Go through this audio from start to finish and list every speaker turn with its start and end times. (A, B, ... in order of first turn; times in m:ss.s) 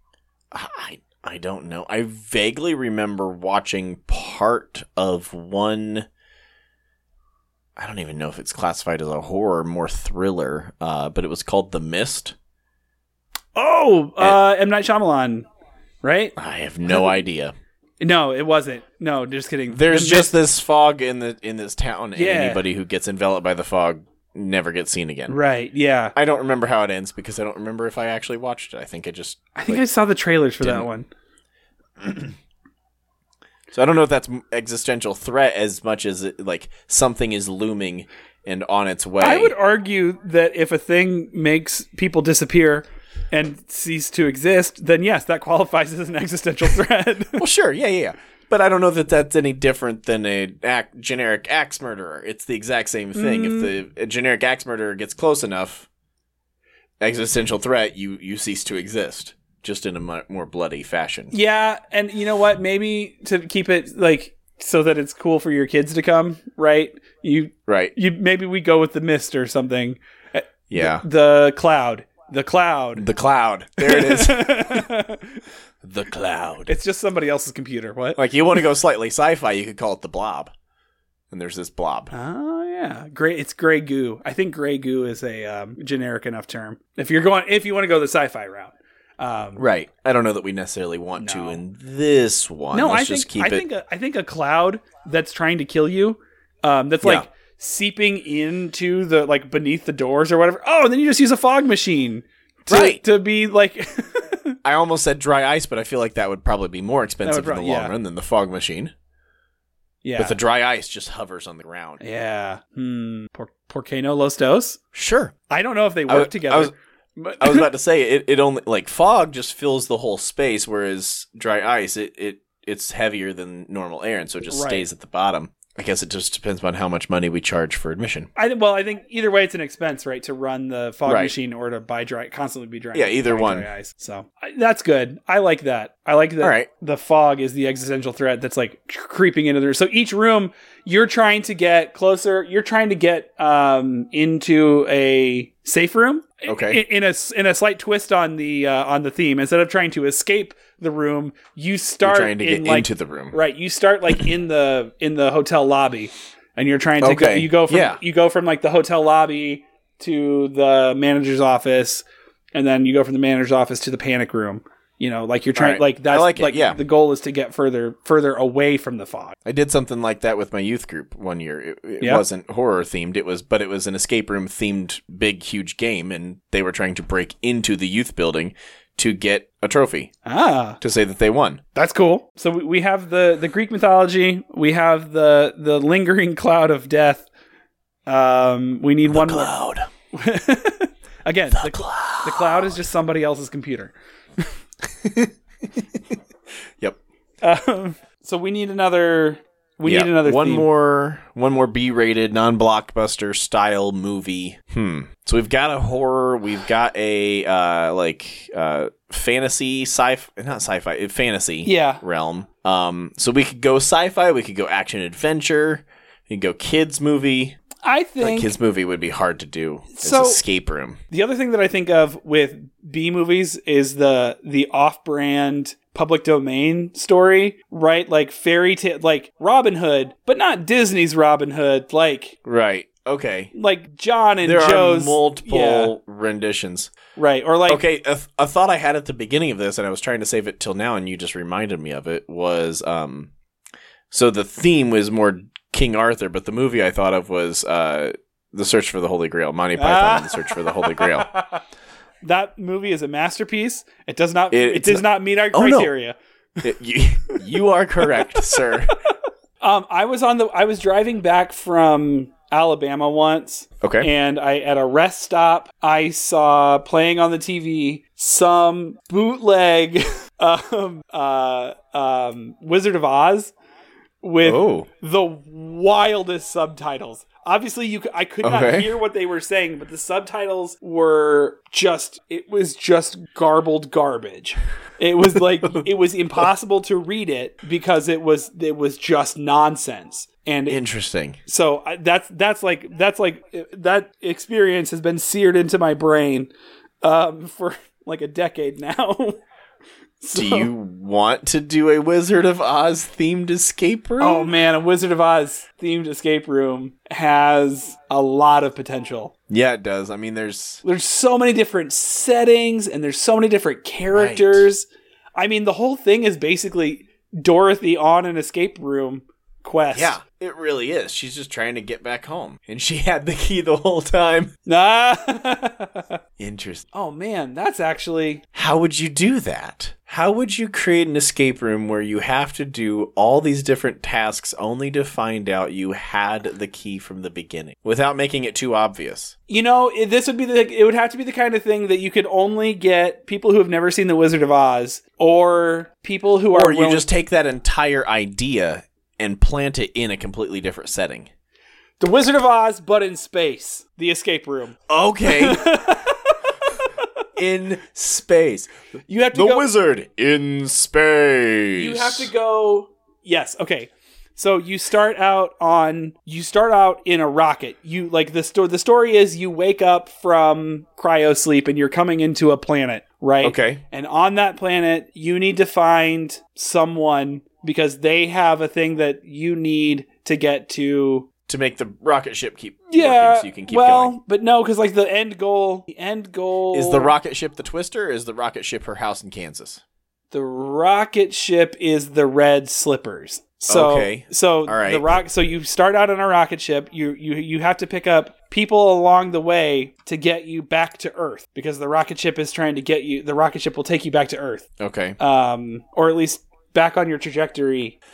0:00.5-0:06.1 A
0:07.8-0:12.4 A
0:13.6-0:15.4 B
0:16.0-0:16.4 B
0:16.4-0:17.6 A
0:16.9-0:17.2 B
0:18.0-0:20.4 B
0:19.7-0:25.4 A
0:22.2-0:22.6 B
0:25.3-0:26.1 B
0:26.2-0:29.8 A
0:29.6-0:31.1 B
0:30.6-0:30.9 A
0:32.0-0:32.3 A
0:33.7-0:39.5 A
0:39.2-0:47.4 B
0:47.4-0:55.9 A
0:53.2-0:53.7 B
0:57.0-1:01.3 A
1:01.3-1:13.1 B
1:07.7-1:07.9 A
1:10.7-1:11.0 A
1:13.0-1:14.9 A
1:13.8-1:15.4 B
1:15.8-1:16.7 A
1:16.7-1:18.2 B
1:18.2-1:20.5 A
1:21.3-1:22.1 A
1:22.1-1:29.6 B
1:29.6-1:33.6 A
1:31.2-1:31.6 B
1:32.7-1:44.6 B
1:42.7-1:43.0 A
1:44.6-1:48.9 A
1:47.2-1:47.9 B
1:50.0-1:50.4 B
1:50.2-1:52.0 A
1:52.0-1:54.8 B
1:54.9-1:55.4 A
1:55.5-1:57.7 B
1:56.1-1:56.7 A
1:57.4-2:08.3 A
2:04.5-2:04.9 B
2:08.4-2:49.4 B
2:11.1-2:11.3 A
2:12.9-2:13.7 A
2:16.4-2:16.7 A
2:26.5-2:26.8 A
2:32.0-2:33.4 A
2:37.0-2:38.0 A
2:45.6-2:46.8 A
2:49.5-3:00.1 A
3:00.2-3:00.8 B
3:00.8-3:01.6 A
3:01.8-3:07.3 B
3:08.1-3:09.5 B
3:09.1-3:09.9 A
3:10.1-3:13.9 B
3:11.5-3:12.7 A
3:14.8-3:16.0 A
3:17.4-3:20.7 B
3:19.9-3:37.6 A
3:31.6-3:32.0 B
3:37.8-3:38.5 B
3:38.2-3:41.0 A
3:40.0-3:40.4 B
3:41.1-3:52.4 B
3:52.4-3:53.5 A
3:53.5-3:55.9 B
3:54.4-3:56.9 A
3:57.2-3:57.8 B
3:57.7-4:03.3 A
4:04.1-4:11.3 A
4:09.8-4:11.6 B
4:12.2-4:16.2 B
4:14.5-4:15.9 A
4:16.6-4:19.0 A
4:18.1-4:18.5 B
4:19.6-4:33.5 B
4:23.8-4:24.1 A
4:34.2-4:50.8 B
4:34.4-4:34.9 A
4:38.4-4:38.9 A
4:45.3-4:45.9 A
4:50.7-4:51.4 A
4:51.5-4:56.5 B
4:57.0-4:59.4 B
5:00.2-5:00.7 B
5:00.3-5:04.5 A
5:04.2-5:09.3 B
5:09.5-5:10.8 A
5:10.8-5:20.2 B
5:14.2-5:14.6 A
5:19.9-5:24.5 A
5:24.7-5:26.2 B
5:26.4-5:26.8 A
5:26.9-5:28.4 B
5:28.5-5:39.4 A
5:39.5-5:47.1 B
5:46.5-5:51.3 A
5:52.0-5:57.1 B
5:54.9-5:55.8 A
5:57.4-5:58.7 A
5:59.1-5:59.7 B
5:59.3-6:02.3 A
6:01.8-6:21.3 B
6:13.4-6:13.8 A
6:21.5-6:24.2 A
6:22.9-6:27.2 B
6:26.7-6:29.8 A
6:30.3-6:44.7 B
6:33.7-6:35.2 A
6:44.8-6:45.2 A
6:45.2-6:48.0 B